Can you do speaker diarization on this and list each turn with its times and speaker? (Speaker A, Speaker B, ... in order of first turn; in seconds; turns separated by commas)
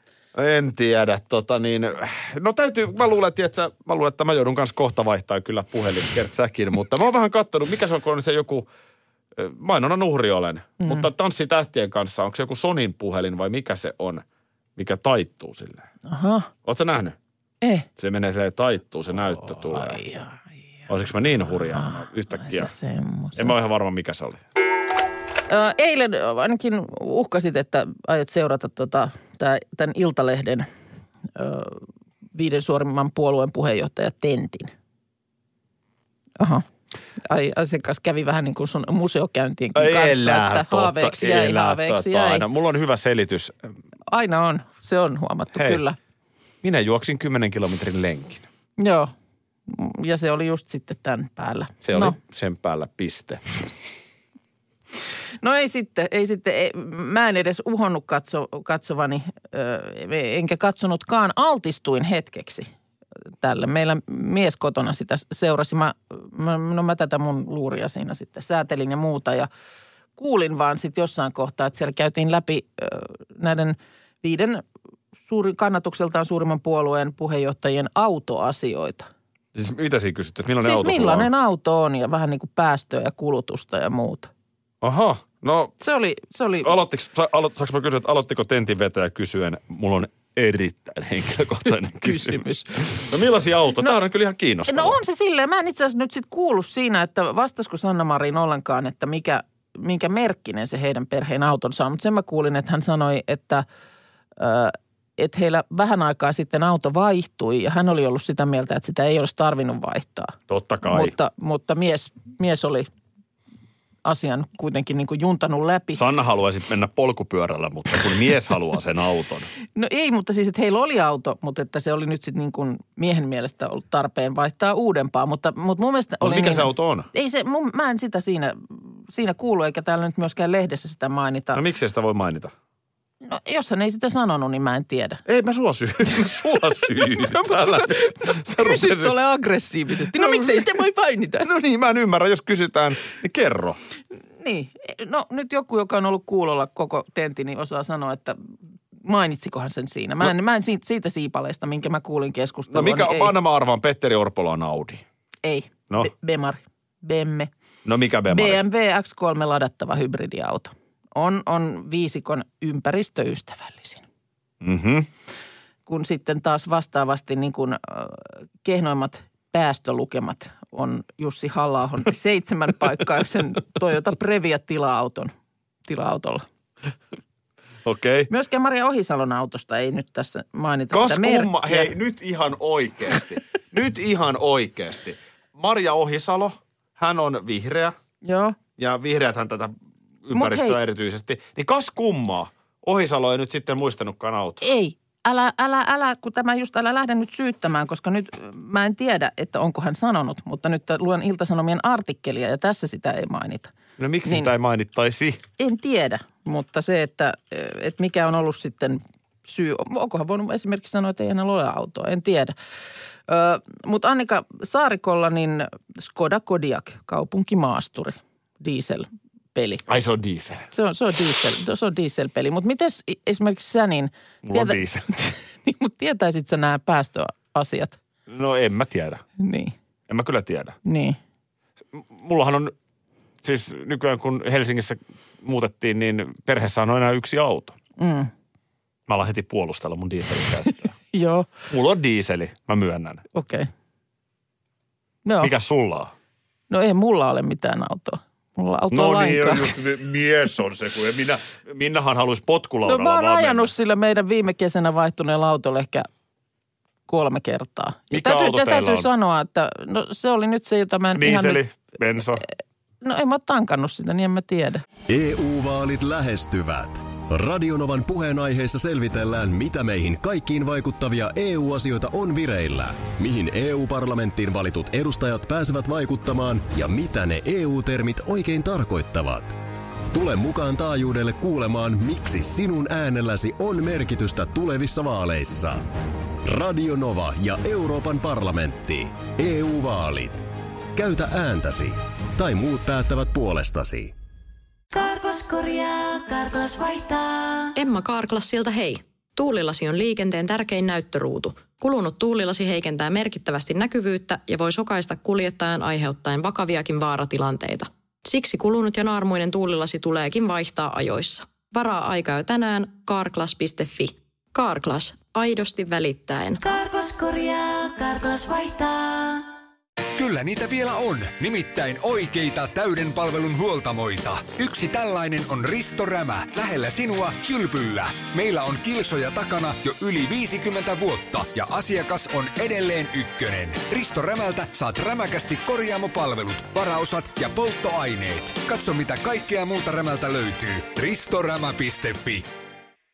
Speaker A: 0.3-8.7, Speaker A: 9.3-14.2, Speaker A: 14.8-15.9, Speaker B: 16.1-16.5, Speaker A: 16.6-17.1, Speaker B: 17.6-17.9, Speaker A: 18.0-20.0, Speaker B: 19.5-20.4, Speaker A: 20.9-22.7, Speaker B: 21.7-23.5, Speaker A: 23.4-24.4, Speaker B: 25.5-30.7, Speaker B: 31.4-34.7, Speaker B: 36.4-36.6, Speaker B: 37.2-42.4, Speaker A: 39.7-43.7, Speaker B: 44.1-46.0, Speaker A: 45.5-45.8, Speaker A: 46.6-48.4, Speaker B: 48.8-49.1, Speaker B: 49.7-52.1, Speaker A: 51.8-53.4, Speaker B: 55.4-62.7, Speaker B: 63.4-69.5, Speaker B: 70.2-74.6, Speaker B: 75.2-79.1, Speaker A: 79.5-81.3, Speaker B: 80.6-84.3, Speaker A: 84.8-85.7, Speaker B: 85.8-86.8, Speaker A: 86.6-95.0, Speaker B: 92.0-93.0, Speaker B: 94.7-103.7, Speaker B: 104.4-112.9, Speaker A: 110.5-111.1, Speaker B: 114.0-116.0, Speaker A: 116.0-119.5, Speaker B: 119.7-131.6, Speaker A: 126.2-127.1, Speaker A: 131.5-132.5, Speaker B: 133.2-135.2, Speaker A: 135.2-139.2, Speaker B: 137.2-141.5, Speaker A: 140.1-140.7, Speaker A: 141.4-143.8, Speaker B: 144.4-153.3, Speaker A: 152.7-155.0, Speaker B: 155.4-157.5, Speaker A: 157.8-158.6, Speaker B: 158.3-164.0, Speaker A: 164.6-165.1, Speaker B: 165.9-175.3, Speaker B: 175.9-176.4, Speaker A: 177.8-178.3, Speaker B: 178.3-181.9, Speaker A: 180.9-187.9, Speaker B: 188.2-188.6, Speaker A: 188.8-189.7, Speaker A: 190.2-194.6, Speaker B: 190.3-190.8, Speaker B: 194.6-203.7, Speaker A: 204.0-205.4, Speaker B: 204.2-204.5, Speaker B: 205.6-212.5, Speaker B: 213.3-219.8, Speaker A: 219.9-220.7, Speaker B: 220.7-228.0, Speaker A: 224.4-225.1, Speaker A: 228.3-229.2, Speaker B: 229.4-229.7, Speaker A: 230.1-230.8, Speaker B: 230.8-231.2, Speaker A: 231.9-232.7, Speaker A: 233.4-237.8, Speaker B: 238.0-238.3, Speaker A: 239.1-240.9, Speaker B: 241.1-241.5, Speaker A: 241.7-243.2, Speaker B: 243.3-243.7, Speaker B: 245.2-245.5, Speaker A: 245.4-246.1, Speaker B: 246.7-249.7, Speaker A: 248.9-253.7, Speaker B: 252.8-256.1, Speaker B: 257.1-261.6, Speaker A: 258.1-259.1, Speaker A: 261.1-262.4, Speaker B: 263.0-264.8, Speaker C: 265.1-279.6, Speaker C: 280.1-285.8, Speaker C: 286.4-290.4, Speaker C: 290.9-294.1, Speaker D: 294.9-297.7, Speaker E: 297.7-316.6, Speaker D: 316.6-319.5, Speaker F: 320.2-342.5